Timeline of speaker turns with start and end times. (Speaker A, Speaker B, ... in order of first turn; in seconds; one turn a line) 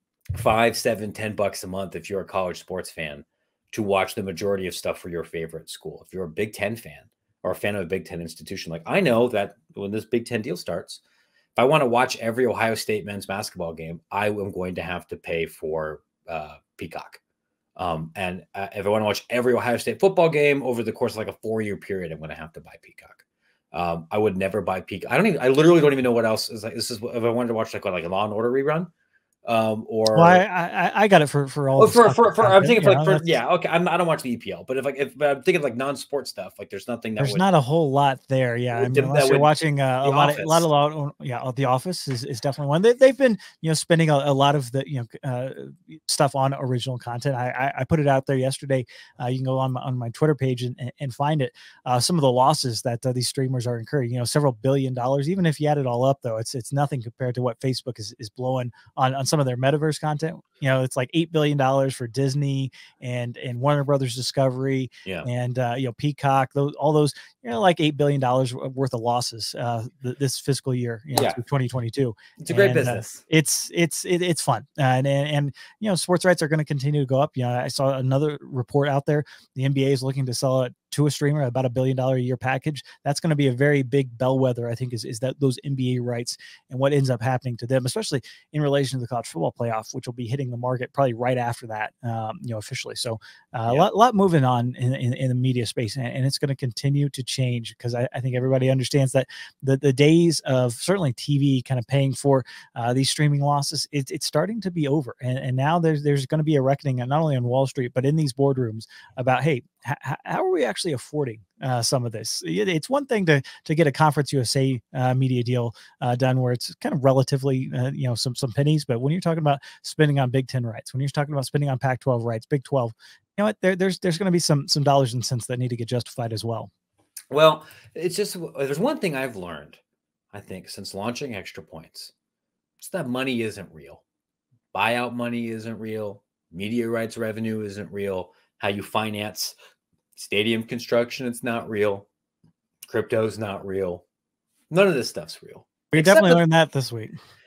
Speaker A: 0.3-11.0
Speaker A: 11.6-17.2
Speaker A: 17.8-28.9
Speaker A: 29.5-30.4
Speaker B: 30.1-33.4
Speaker A: 31.8-37.4
Speaker B: 37.2-126.7
Speaker A: 38.7-39.5
Speaker A: 40.0-40.7
Speaker A: 71.1-71.4
Speaker A: 72.4-73.2
Speaker A: 127.3-129.8
Speaker A: 130.3-132.1
Speaker A: 132.8-134.0
Speaker A: 134.7-139.6
Speaker A: 140.2-142.1
Speaker A: 142.9-144.0
Speaker A: 144.7-146.4
Speaker B: 145.9-147.2